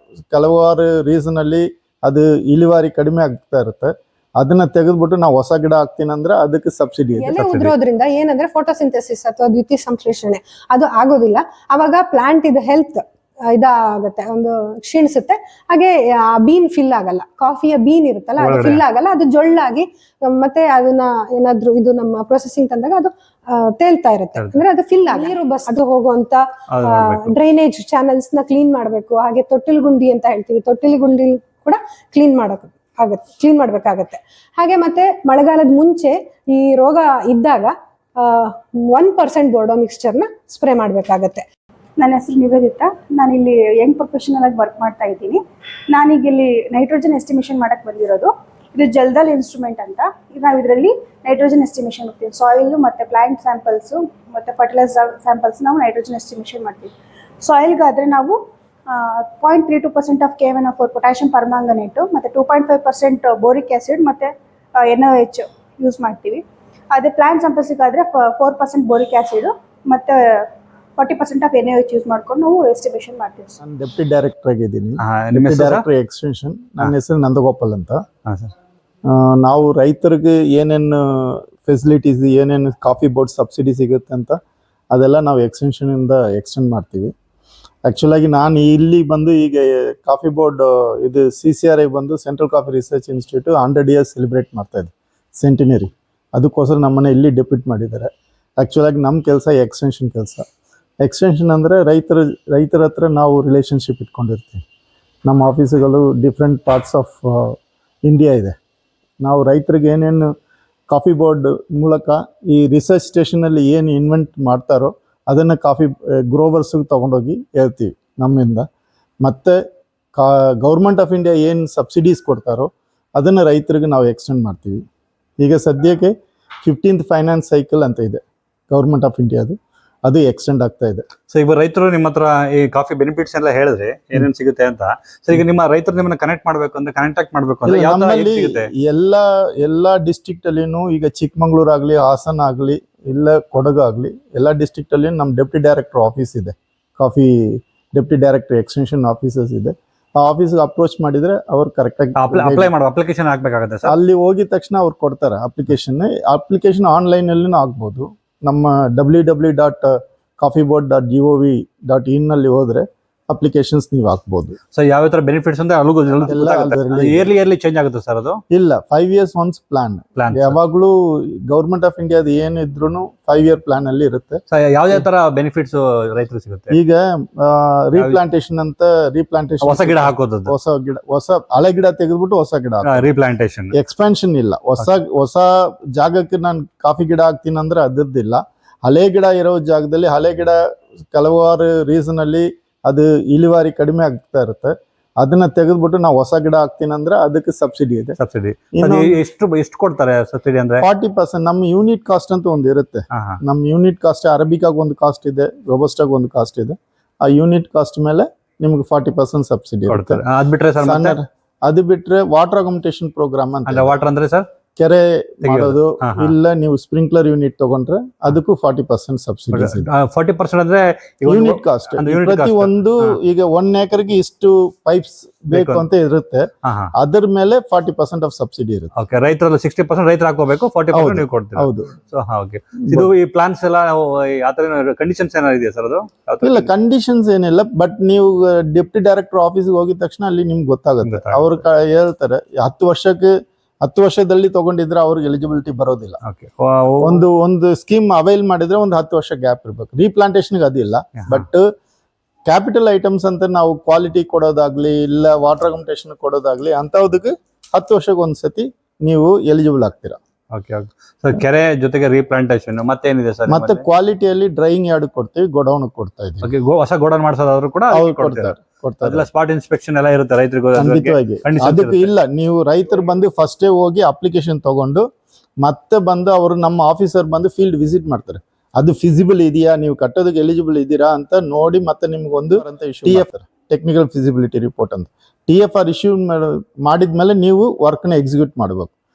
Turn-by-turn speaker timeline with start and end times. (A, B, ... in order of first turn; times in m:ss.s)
0:00.3-0:07.4 A
0:07.2-0:41.4 B
0:07.3-0:07.7 C
0:18.4-0:18.8 C
0:24.4-0:24.6 C
0:26.7-0:27.4 C
0:42.0-1:13.6 D
1:13.6-1:18.0 A
1:15.0-1:15.8 C
1:18.2-1:18.5 C
1:19.1-1:24.4 A
1:24.9-1:27.1 A
1:27.8-1:40.4 A
1:41.0-1:44.6 A
1:45.2-1:48.6 A
1:49.2-1:50.3 A
1:50.9-1:58.6 A
1:59.2-1:59.6 A
2:00.2-2:04.8 A
2:05.4-2:11.0 A
2:11.3-2:18.7 C
2:17.6-2:32.7 A
2:32.2-2:33.9 C
2:33.8-2:44.6 A
2:44.7-2:48.4 C
2:46.3-2:47.3 A
2:48.5-2:54.4 A
2:50.2-2:50.6 C
2:54.5-2:56.7 C
2:56.7-3:03.1 A
2:59.6-3:00.5 C
3:02.8-3:03.7 C
3:03.7-3:10.6 A
3:11.1-3:18.2 A
3:18.2-3:20.8 C
3:18.8-3:19.2 A
3:20.8-3:30.2 A
3:23.1-3:23.4 C
3:29.9-3:31.2 C
3:30.8-3:33.9 A
3:33.6-3:34.4 C
3:34.8-3:39.9 A
3:35.4-3:36.3 C
3:39.5-3:43.2 C
3:41.2-3:48.9 A
3:45.5-3:45.8 C
3:46.6-3:46.9 C
3:49.0-3:56.7 C
3:50.9-3:51.9 A
3:56.4-4:06.2 A
4:01.0-4:01.6 C
4:06.2-4:07.2 C
4:07.0-4:11.7 A
4:12.4-4:20.2 A
4:20.5-4:23.8 C
4:23.5-4:26.5 A
4:26.4-4:32.1 C
4:27.9-4:29.2 A
4:30.7-4:35.0 A
4:35.6-4:48.9 A